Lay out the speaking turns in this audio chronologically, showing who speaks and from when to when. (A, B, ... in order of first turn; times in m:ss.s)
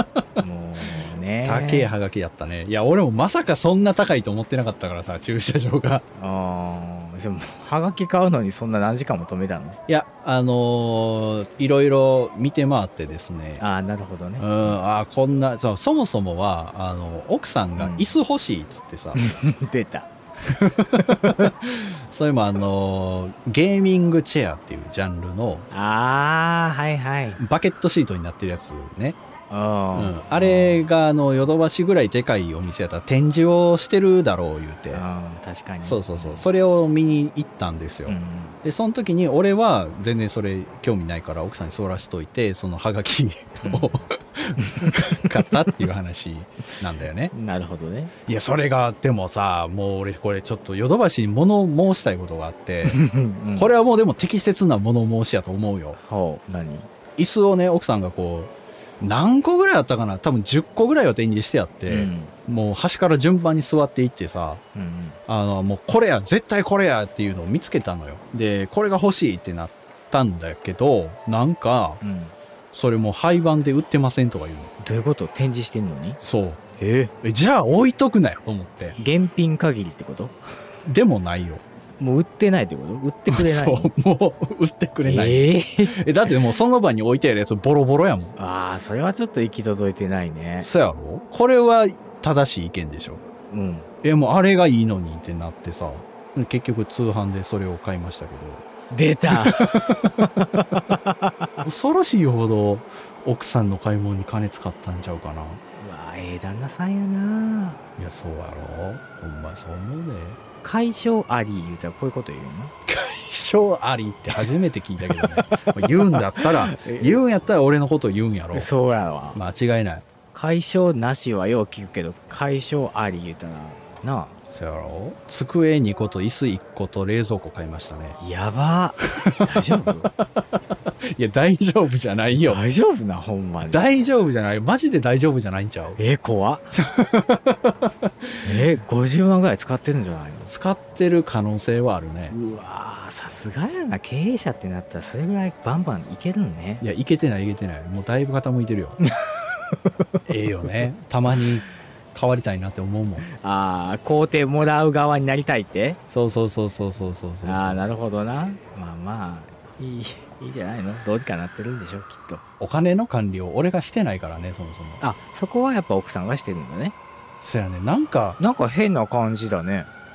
0:00.4-0:01.9 A
0:01.4-0:06.0 B
0:06.2-0:09.8 A
0:09.9-0:13.6 B
0:13.6-0:14.8 A
0:14.4-0:19.2 B
0:17.8-0:18.2 A
0:19.1-0:20.1 A
0:20.5-0:25.7 B
0:25.7-0:27.4 A
0:27.4-0:29.2 B
0:29.5-0:30.8 A
0:29.9-0:35.0 B
0:34.9-0:36.5 A
0:35.8-0:47.3 B
0:38.0-0:38.6 A
0:43.6-0:43.9 A
0:44.6-0:44.9 A
0:47.3-0:48.1 A
0:48.2-0:53.0 B
0:52.8-0:53.7 A
0:53.6-0:56.0 B
0:56.0-0:56.9 A
0:57.2-1:04.6 B
1:01.9-1:02.3 A
1:04.7-1:05.2 A
1:05.3-1:12.0 B
1:12.0-1:12.3 A
1:12.7-1:14.7 B
1:14.8-1:16.2 A
1:16.2-1:16.6 B
1:16.8-1:17.1 A
1:17.2-1:19.0 B
1:19.0-1:20.4 A
1:20.8-1:21.6 B
1:22.0-1:23.9 A
1:23.3-1:28.3 B
1:25.0-1:26.0 A
1:28.4-1:30.7 A
1:30.6-1:33.2 B
1:33.5-1:33.9 A
1:34.0-1:38.6 B
1:38.9-1:41.6 A
1:39.3-1:40.2 B
1:41.6-1:45.6 B
1:45.8-1:47.8 A
1:48.0-1:50.4 B
1:50.6-1:52.7 A
1:52.8-1:58.7 B
1:55.1-1:57.2 A
1:58.5-1:59.4 A
1:59.3-2:00.0 B
2:00.3-2:04.4 A
2:04.5-2:08.2 B
2:08.2-2:10.1 A
2:09.2-2:10.1 B
2:11.1-2:12.6 B
2:12.3-2:13.8 A
2:13.7-2:16.0 B
2:16.0-2:16.7 A
2:16.7-2:18.6 B
2:18.4-2:20.5 A
2:20.5-2:22.3 B
2:22.3-2:26.8 A
2:26.8-2:29.0 B
2:29.0-2:29.9 A
2:30.2-2:33.3 B
2:33.4-2:36.0 A
2:36.1-2:37.8 B
2:37.4-2:42.4 A
2:42.6-2:45.0 B
2:45.0-2:46.9 A
2:47.4-2:48.4 B
2:48.4-2:49.9 A